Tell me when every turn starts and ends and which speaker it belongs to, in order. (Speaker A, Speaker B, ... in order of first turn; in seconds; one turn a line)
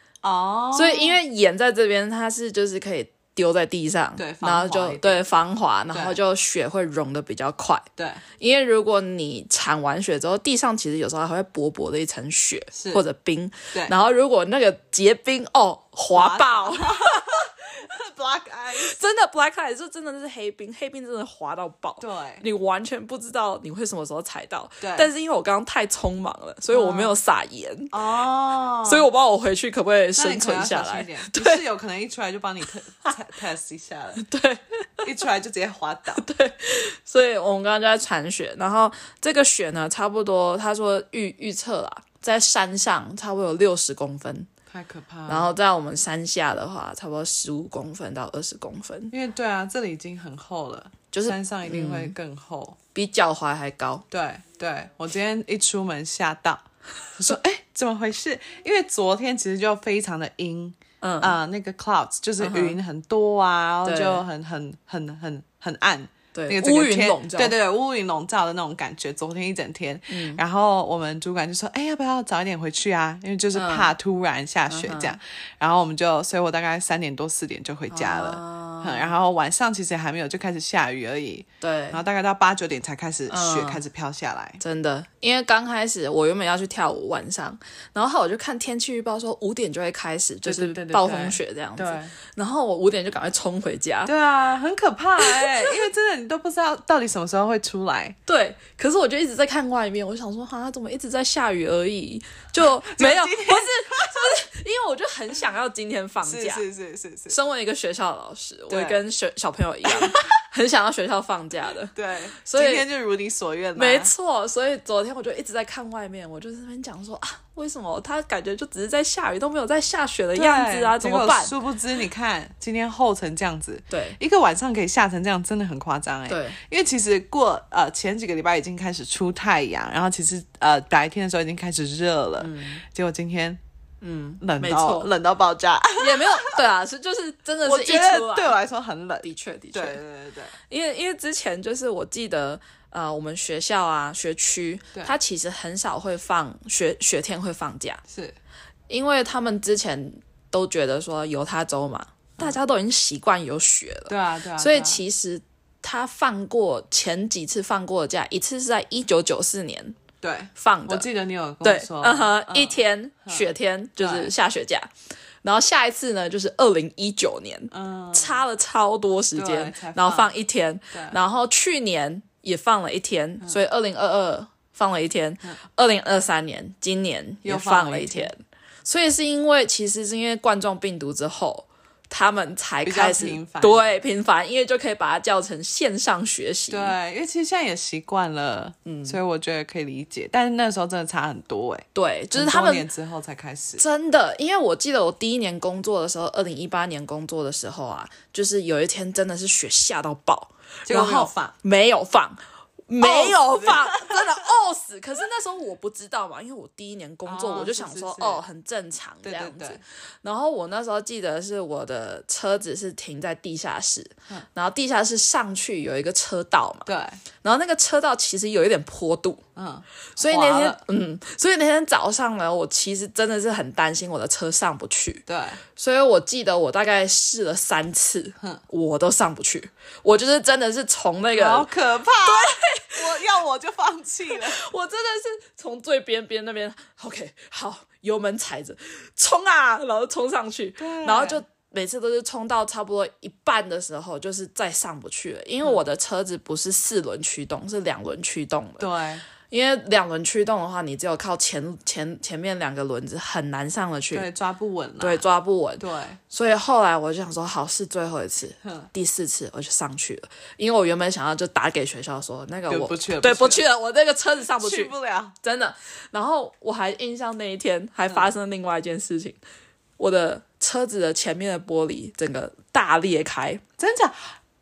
Speaker A: 0.2-1.2
Speaker B: 0.7-7.8
Speaker A: 4.2-5.2
Speaker A: 5.9-6.2
Speaker A: 8.0-8.2
Speaker B: 8.4-17.4
Speaker A: 12.7-13.0
Speaker A: 16.1-19.0
Speaker B: 18.8-27.9
Speaker A: 22.0-22.4
Speaker A: 24.8-25.1
Speaker A: 26.7-27.2
Speaker A: 27.9-29.1
Speaker B: 28.9-31.6
Speaker A: 30.1-34.2
Speaker B: 34.2-34.9
Speaker A: 35.0-36.2
Speaker B: 36.2-44.5
Speaker A: 44.7-45.5
Speaker B: 45.3-49.1
Speaker A: 49.1-52.8
Speaker B: 51.1-52.1
Speaker B: 52.9-54.0
Speaker A: 54.1-56.6
Speaker A: 57.2-84.6
Speaker B: 61.0-61.4
Speaker B: 62.4-62.8
Speaker B: 63.9-64.2
Speaker B: 66.3-67.6
Speaker B: 70.1-70.4
Speaker B: 73.5-73.9
Speaker B: 74.7-75.2
Speaker B: 77.9-79.1
Speaker B: 81.6-82.0
Speaker B: 83.3-83.8
Speaker B: 84.6-94.1
Speaker A: 90.4-92.1
Speaker A: 94.1-98.2
Speaker B: 95.2-95.8
Speaker B: 98.3-106.6
Speaker A: 102.8-104.4
Speaker A: 106.2-107.4
Speaker B: 107.3-112.9
Speaker A: 108.7-109.0
Speaker A: 109.9-110.3
Speaker A: 111.9-114.1
Speaker B: 113.8-121.5
Speaker A: 120.3-133.6
Speaker B: 123.9-124.2
Speaker B: 126.3-126.6
Speaker B: 132.4-132.8
Speaker B: 134.0-135.1
Speaker A: 134.4-136.6
Speaker B: 136.0-138.6
Speaker A: 137.6-140.6
Speaker B: 139.2-140.0
Speaker B: 140.6-148.0
Speaker A: 148.1-148.4
Speaker B: 148.9-160.0
Speaker A: 154.1-155.0
Speaker A: 160.2-164.3
Speaker B: 160.6-161.1
Speaker B: 161.6-164.9
Speaker B: 165.4-187.0
Speaker A: 167.7-168.4
Speaker A: 169.3-170.3
Speaker A: 170.9-171.2
Speaker A: 177.4-178.3
Speaker A: 182.8-183.9
Speaker A: 186.7-193.8
Speaker B: 188.9-189.2
Speaker B: 191.9-192.9
Speaker B: 193.8-216.9
Speaker A: 200.9-201.5
Speaker A: 203.0-204.3
Speaker A: 207.3-208.4
Speaker A: 209.2-209.8
Speaker A: 216.9-217.2
Speaker B: 217.4-219.4
Speaker A: 219.6-220.8
Speaker B: 220.2-225.2
Speaker A: 225.3-225.6
Speaker B: 225.8-231.7
Speaker A: 231.3-234.6
Speaker B: 232.2-233.2
Speaker B: 234.3-248.9
Speaker A: 240.8-241.4
Speaker A: 248.8-249.2
Speaker B: 249.5-254.3
Speaker A: 254.1-255.2
Speaker B: 255.0-269.4
Speaker A: 255.8-256.2
Speaker A: 258.6-258.9
Speaker A: 262.7-263.6
Speaker A: 264.5-265.4
Speaker A: 268.1-268.4
Speaker B: 270.0-273.6
Speaker A: 273.8-274.3